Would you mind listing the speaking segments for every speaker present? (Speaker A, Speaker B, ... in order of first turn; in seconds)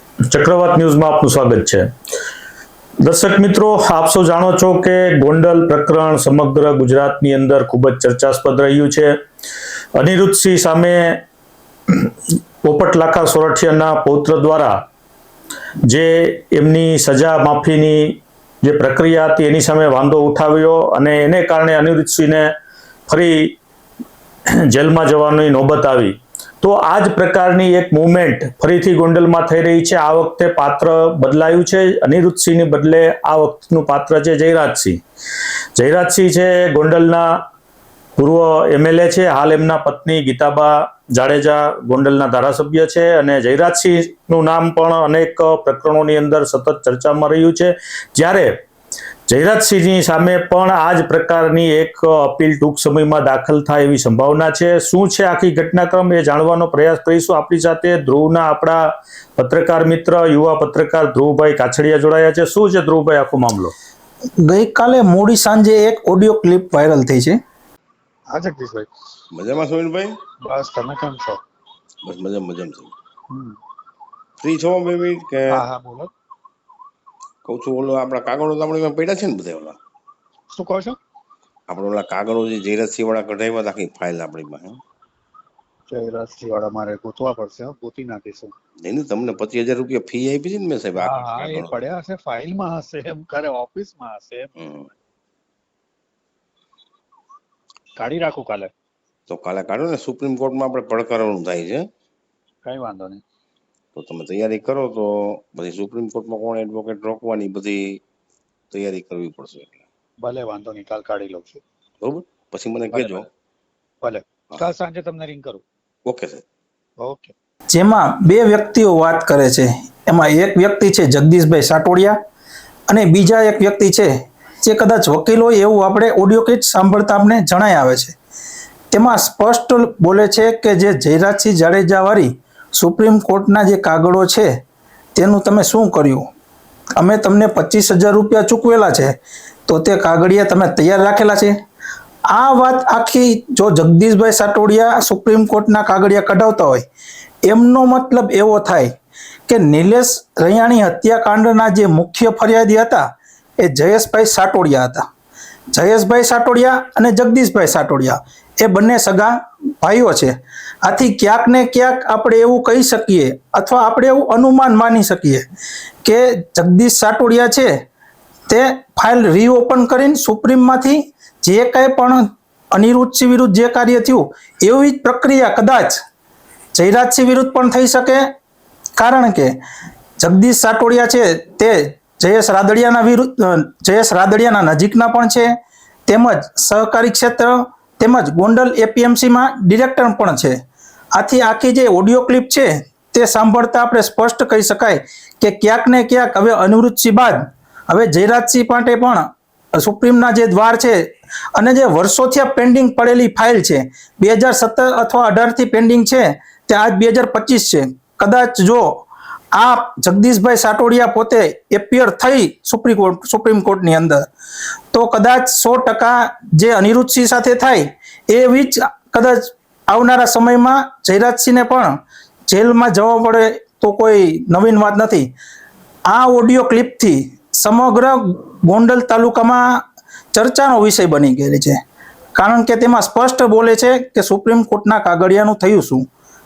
Speaker A: 0.3-1.9, 3.0-9.2, 10.0-11.2, 12.6-14.8, 15.9-22.5, 23.1-23.5, 24.7-35.0, 35.8-37.4, 38.2-48.5, 49.3-63.7
Speaker B: 64.4-67.4, 117.7-122.2, 122.9-124.1, 124.6-128.1, 128.9-134.5, 135.1-136.3, 137.0-139.1, 139.7-141.5, 142.3-146.8, 147.4-148.9, 149.5-153.1, 153.6-155.0, 155.7-160.3, 160.8-165.4, 166.0-167.7, 168.5-176.0, 176.7-178.2, 179.0-179.5, 180.2-185.5, 186.1-190.6, 191.1-209.0, 209.5-214.3, 214.9-221.9, 222.5-225.3, 226.1-229.8, 230.3-231.8, 232.3-236.1
Speaker C: 68.3-68.9, 70.4-71.4, 73.3-73.6, 75.5-76.1, 80.5-81.0, 85.9-88.5, 91.0-94.5, 98.0-98.7, 102.6-103.2, 110.2-111.6, 112.9-113.2, 114.0-115.6, 117.0-117.3
Speaker D: 69.3-70.1, 72.0-72.9, 74.4-75.6, 77.4-79.8, 81.7-84.8, 88.8-91.7, 94.6-94.9, 99.3-101.8, 103.9-108.0, 108.7-109.8, 112.0-113.2, 116.0-116.4